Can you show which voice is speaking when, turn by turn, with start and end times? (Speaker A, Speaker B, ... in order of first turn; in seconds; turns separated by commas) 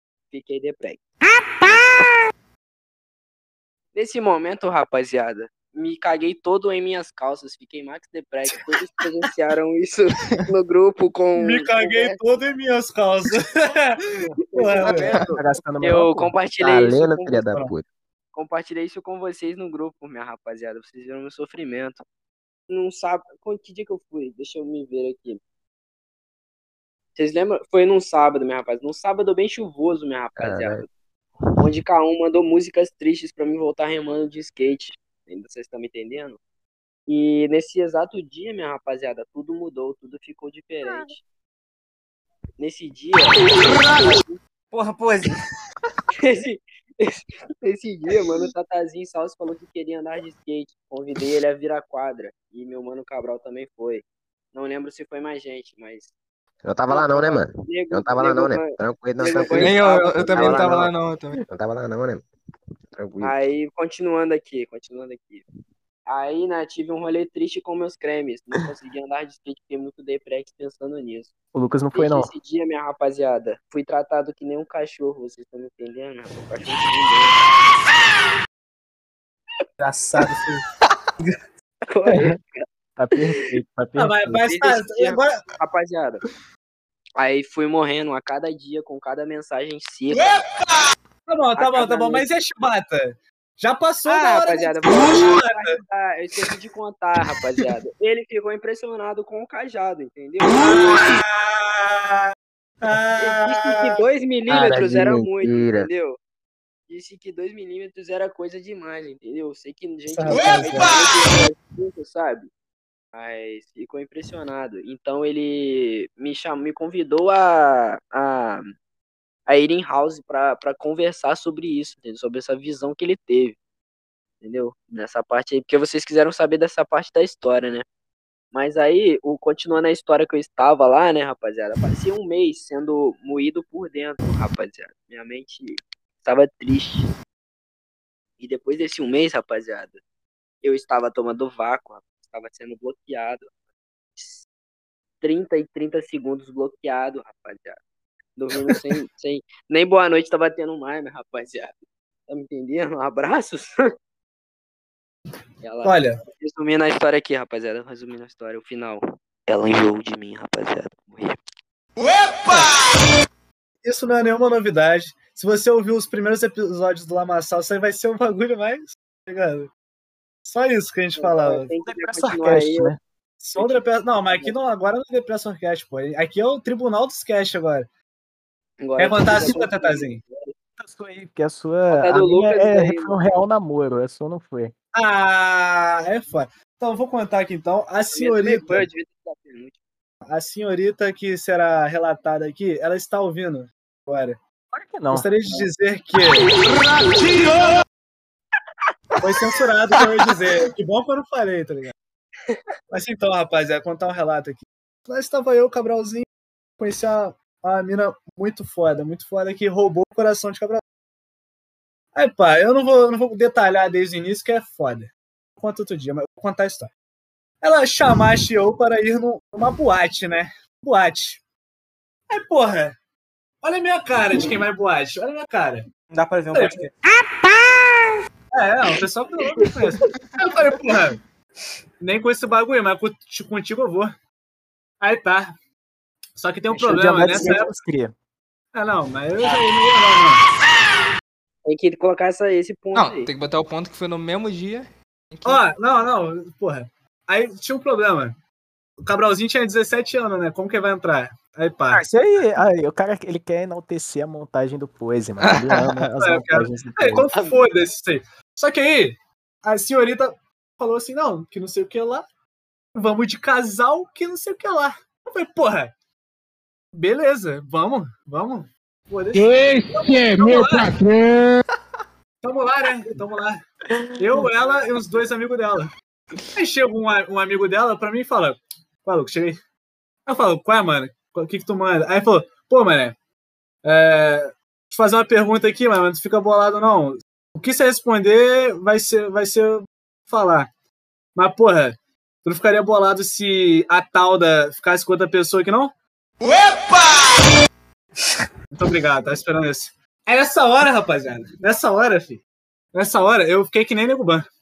Speaker A: 0.3-1.0, Speaker A: 1.6-1.9, Speaker A: 3.9-12.2, Speaker B: 11.4-15.2, Speaker A: 14.5-17.4, Speaker C: 14.9-16.3, Speaker D: 16.6-17.9, Speaker A: 18.3-22.0, Speaker A: 22.7-25.4, Speaker A: 27.2-30.9, Speaker D: 30.4-30.9, Speaker A: 31.6-36.4, Speaker A: 37.1-41.2, Speaker A: 42.6-44.4, Speaker E: 44.7-45.4, Speaker A: 46.2-56.1, Speaker D: 56.6-60.9, Speaker A: 56.9-60.8, Speaker F: 59.4-61.4, Speaker D: 61.5-62.2, Speaker D: 62.9-63.5, Speaker A: 63.2-65.4, Speaker A: 66.1-71.3, Speaker C: 71.5-72.3, Speaker A: 71.9-77.5, Speaker E: 79.8-80.6, Speaker B: 80.2-80.5, Speaker A: 81.9-82.4, Speaker C: 82.1-82.4, Speaker C: 83.0-84.4, Speaker B: 84.0-85.4, Speaker A: 84.5-86.2, Speaker A: 87.2-90.5, Speaker B: 91.3-95.8, Speaker A: 91.6-92.3, Speaker A: 94.1-100.7, Speaker B: 100.6-102.2, Speaker B: 102.8-104.0, Speaker A: 103.2-106.2, Speaker D: 104.5-105.9, Speaker A: 106.9-112.5, Speaker B: 110.1-111.0, Speaker A: 113.1-118.7, Speaker A: 119.5-123.6, Speaker A: 124.4-127.8, Speaker A: 128.5-137.1, Speaker A: 138.4-140.0, Speaker A: 140.6-143.5, Speaker A: 144.2-144.4, Speaker A: 145.2-147.8, Speaker A: 148.4-151.8, Speaker A: 152.3-153.8, Speaker A: 155.6-161.4, Speaker B: 155.8-156.2, Speaker B: 162.5-162.7, Speaker B: 163.8-169.7, Speaker B: 170.5-171.7, Speaker A: 171.2-172.9, Speaker C: 171.8-173.0, Speaker B: 173.4-177.9, Speaker A: 173.6-174.6, Speaker A: 178.8-180.5, Speaker B: 179.0-180.2, Speaker C: 180.8-184.7, Speaker A: 181.9-183.4, Speaker B: 184.9-188.9, Speaker A: 188.1-189.7, Speaker B: 190.3-194.4, Speaker C: 194.7-195.3, Speaker B: 195.1-196.5, Speaker B: 199.2-201.9, Speaker B: 202.9-206.3, Speaker B: 206.8-210.8, Speaker B: 212.2-216.9, Speaker B: 217.6-221.4, Speaker B: 222.3-223.0, Speaker B: 223.6-225.9, Speaker E: 226.1-226.9, Speaker B: 226.5-226.8, Speaker B: 228.5-231.2, Speaker B: 232.0-234.1, Speaker B: 235.0-235.5, Speaker B: 236.4-237.7, Speaker C: 236.7-238.1, Speaker B: 238.7-240.4, Speaker A: 241.7-243.3, Speaker F: 242.9-245.6, Speaker B: 245.4-248.4, Speaker B: 249.0-252.0, Speaker C: 251.9-257.3, Speaker F: 255.4-255.8, Speaker B: 256.2-262.3, Speaker A: 257.3-257.6, Speaker B: 262.9-265.9, Speaker B: 266.9-270.9, Speaker G: 269.3-271.6, Speaker B: 272.4-273.6, Speaker B: 274.2-275.9, Speaker B: 276.6-279.6, Speaker B: 280.3-283.2, Speaker B: 283.8-290.7, Speaker B: 291.4-295.9, Speaker B: 298.7-302.4, Speaker B: 302.9-304.4